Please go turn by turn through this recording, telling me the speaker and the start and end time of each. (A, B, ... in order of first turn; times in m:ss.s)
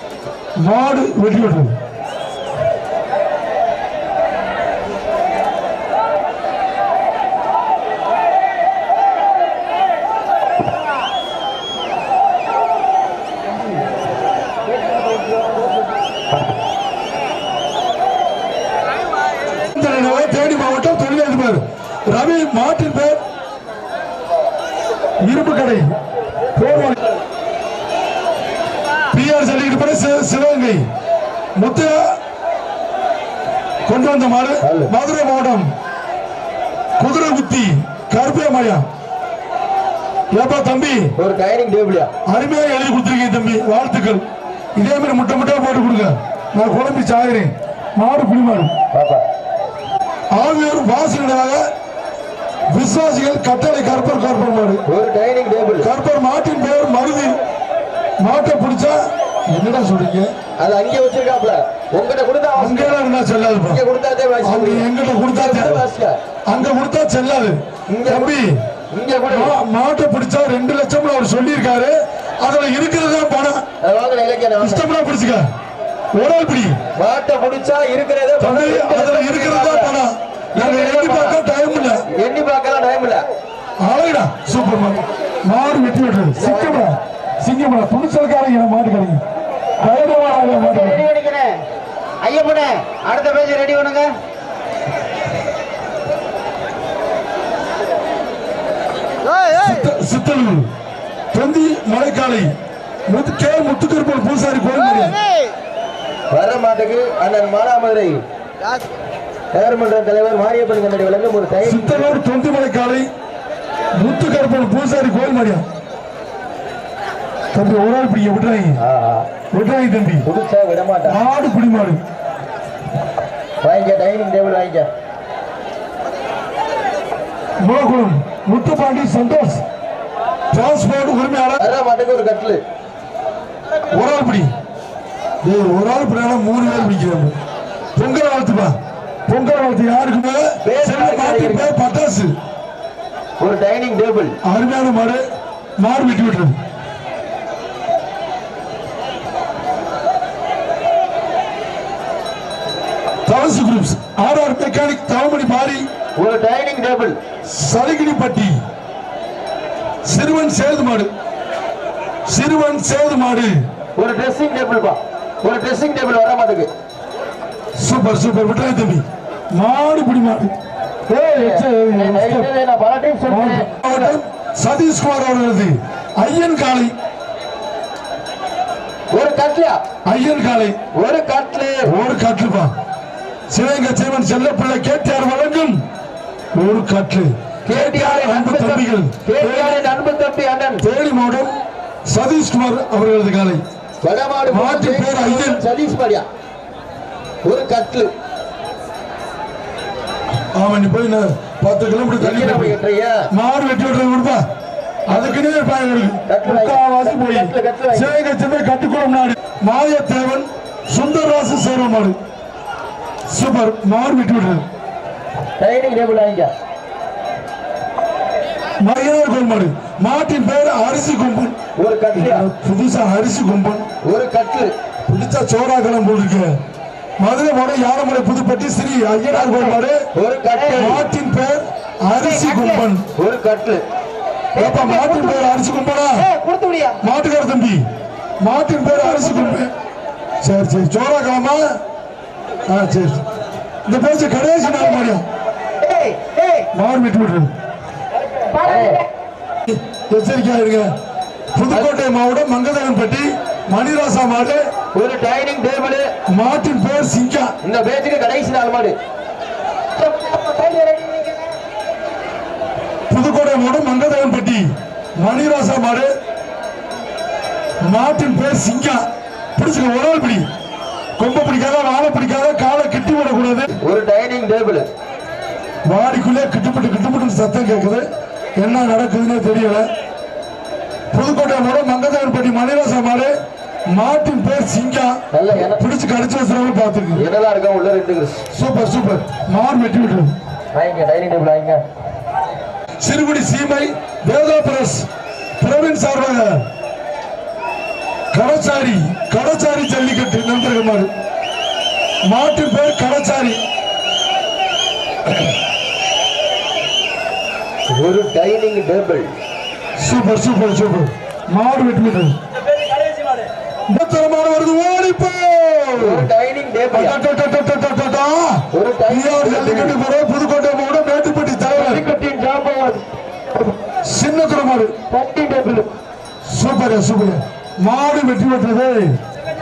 0:00.6-0:01.8 A
0:19.7-0:23.2 A
0:25.2-0:25.9 A
0:26.6-0:27.0 A
0:29.1-0:30.9 A
0:31.6-0:32.0 A
0:33.9-0:35.7 A
0:34.6-0:34.9 B
0:37.0-0:38.9 A
0:40.3-0:41.1 A
0:41.2-0:42.1 B
0:42.2-0:44.2 A
0:44.8-0:48.7 A
0:48.9-0:49.2 B
0:50.3-0:51.6 A
0:52.7-0:54.8 A
0:54.9-0:55.9 B
0:55.8-0:57.4 A
0:58.2-1:00.3 A
1:00.6-1:03.0 B
1:02.6-1:03.8 A
1:03.7-1:06.2 B
1:04.4-1:05.8 A
1:06.5-1:08.6 A
1:07.9-1:08.4 B
1:08.9-1:09.5 B
1:09.3-1:13.6 A
1:13.8-1:14.9 B
1:14.6-1:15.5 A
1:16.1-1:16.8 A
1:17.0-1:19.9 B
1:18.4-1:22.0 A
1:20.5-1:21.4 B
1:22.1-1:23.2 B
1:23.8-1:29.2 A
1:26.4-1:26.9 B
1:29.8-1:31.0 A
1:30.5-1:31.6 C
1:32.2-1:34.1 C
1:39.5-1:40.7 A
1:41.3-1:42.5 A
1:43.1-1:45.2 A
1:46.3-1:48.2 B
1:49.5-1:52.2 B
1:51.6-1:53.1 A
1:54.0-1:55.6 A
1:57.5-1:58.8 A
1:58.8-1:59.3 B
1:59.5-2:00.2 A
2:00.2-2:01.2 B
2:01.1-2:02.0 A
2:03.6-2:04.9 B
2:07.6-2:09.6 A
2:10.5-2:11.6 A
2:11.6-2:12.6 B
2:13.9-2:14.5 A
2:15.4-2:17.4 A
2:18.0-2:18.8 A
2:19.3-2:22.3 A
2:20.6-2:21.7 B
2:23.4-2:24.4 B
2:24.4-2:25.2 A
2:25.8-2:26.6 A
2:33.2-2:35.9 A
2:36.2-2:37.2 B
2:37.5-2:38.6 A
2:40.0-2:41.1 A
2:42.3-2:43.6 A
2:44.0-2:46.7 B
2:47.8-2:50.5 A
2:51.1-2:52.5 A
2:51.3-2:54.2 B
2:53.3-2:56.9 A
2:59.1-2:59.8 B
3:00.1-3:00.8 A
3:00.9-3:01.9 B
3:01.9-3:02.7 A
3:03.5-3:05.8 A
3:06.6-3:09.9 A
3:07.6-3:10.8 B
3:10.8-3:11.5 A
3:12.1-3:13.6 A
3:14.0-3:16.2 B
3:14.5-3:15.6 A
3:17.4-3:18.1 B
3:20.5-3:22.8 A
3:22.2-3:23.2 B
3:23.3-3:24.4 A
3:25.1-3:32.2 A
3:26.3-3:28.1 B
3:33.3-3:34.6 A
3:35.6-3:36.5 B
3:38.8-3:41.6 A
3:41.8-3:42.5 B
3:42.1-3:43.9 A
3:44.0-3:44.7 B
3:45.1-3:46.6 A
3:47.2-3:50.0 A
3:49.3-3:49.8 C
3:50.1-3:51.0 B
3:50.5-3:50.8 C
3:50.8-3:53.0 A
3:52.2-3:52.8 C
3:53.2-3:53.8 B
3:54.5-3:55.5 C
3:54.6-3:56.3 A
3:56.1-3:57.0 C
3:57.0-3:57.8 A
3:58.4-3:59.7 A
4:00.4-4:01.6 A
4:02.7-4:03.2 A
4:03.9-4:05.2 A
4:05.8-4:06.7 C
4:06.7-4:07.5 A
4:08.5-4:09.1 C
4:08.6-4:09.0 B
4:09.7-4:10.9 A
4:11.5-4:14.6 A
4:14.9-4:16.1 B
4:16.3-4:17.5 A
4:17.6-4:19.0 B
4:20.0-4:21.5 C
4:23.1-4:26.1 A
4:27.8-4:29.0 A
4:29.6-4:30.5 A
4:31.2-4:33.7 A
4:33.8-4:34.9 B
4:35.9-4:39.9 A
4:41.1-4:43.3 A
4:43.9-4:47.2 A
4:45.3-4:45.8 B
4:47.1-4:48.4 B
4:48.5-4:50.3 A
4:50.7-4:51.8 B
4:53.0-4:55.0 A
4:55.6-4:56.6 A
4:58.3-5:01.1 A
5:02.2-5:03.6 A
5:07.9-5:09.3 B
5:10.0-5:12.4 A
5:13.9-5:16.3 A
5:16.0-5:17.2 B
5:16.9-5:22.0 A
5:18.7-5:20.0 B
5:21.7-5:23.0 B
5:24.0-5:24.9 A
5:25.1-5:25.9 B
5:26.5-5:29.2 A